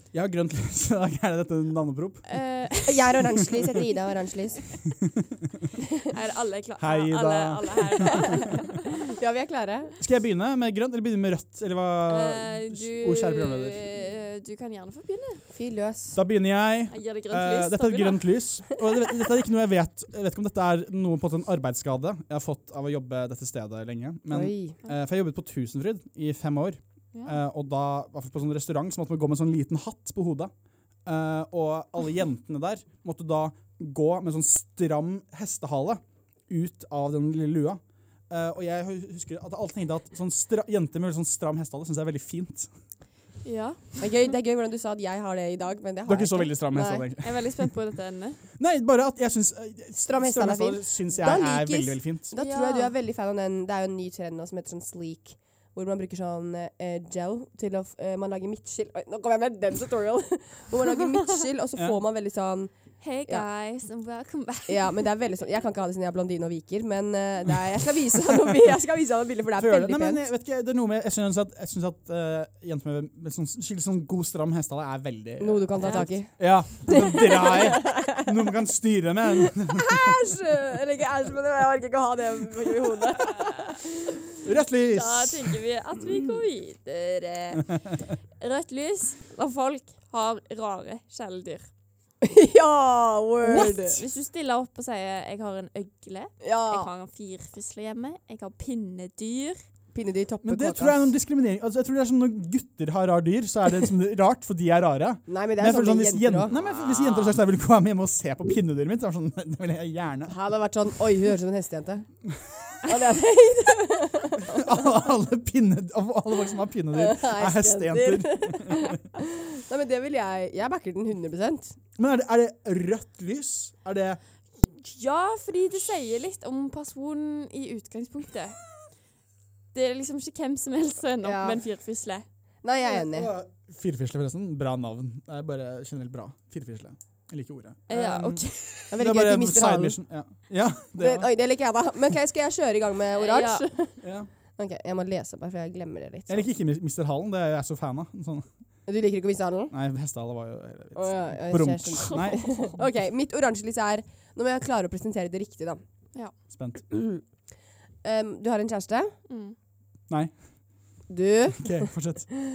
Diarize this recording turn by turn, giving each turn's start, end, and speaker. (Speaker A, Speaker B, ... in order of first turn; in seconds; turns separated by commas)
Speaker A: 0.1-2.2, Speaker B: 2.2-3.1, Speaker C: 2.9-4.7, Speaker B: 6.1-8.8, Speaker A: 6.8-8.4, Speaker C: 9.0-9.9, Speaker A: 10.0-13.8, Speaker B: 12.1-15.4, Speaker C: 15.5-16.2, Speaker A: 16.1-30.5, Speaker B: 16.9-18.2, Speaker C: 24.3-24.8, Speaker B: 27.1-27.4, Speaker A: 31.0-42.7, Speaker B: 43.4-44.0, Speaker C: 44.0-47.1, Speaker A: 46.0-47.5, Speaker B: 47.2-48.4, Speaker A: 48.6-52.3, Speaker C: 50.0-63.5, Speaker B: 52.3-52.9, Speaker B: 63.0-65.0, Speaker C: 64.7-70.2, Speaker A: 69.5-80.2, Speaker C: 75.4-78.4, Speaker B: 75.8-76.1, Speaker C: 79.5-83.8, Speaker A: 84.4-85.6, Speaker B: 84.9-87.8, Speaker B: 88.4-91.7, Speaker C: 92.2-94.0, Speaker A: 93.5-93.7, Speaker B: 93.5-99.6, Speaker C: 96.4-96.9, Speaker C: 99.9-101.0, Speaker A: 100.4-110.3, Speaker C: 105.3-106.5, Speaker B: 106.5-107.4, Speaker C: 110.3-112.1, Speaker C: 112.8-114.9, Speaker A: 114.5-119.0, Speaker C: 116.9-121.8, Speaker A: 122.0-124.2, Speaker B: 124.6-128.6, Speaker B: 129.7-132.2, Speaker C: 131.2-131.6, Speaker C: 132.6-133.3, Speaker A: 132.8-141.3, Speaker B: 137.9-138.9, Speaker C: 138.9-140.0, Speaker C: 141.0-144.0, Speaker B: 143.1-143.7, Speaker A: 144.0-144.3, Speaker C: 144.6-146.5, Speaker A: 146.3-148.4, Speaker C: 148.8-149.7, Speaker A: 149.7-152.5, Speaker C: 150.9-155.8, Speaker B: 152.0-152.7, Speaker A: 156.5-156.8, Speaker C: 156.9-157.2, Speaker C: 158.0-159.1, Speaker B: 159.3-159.6, Speaker A: 160.1-160.3, Speaker C: 161.1-161.9, Speaker A: 161.6-162.3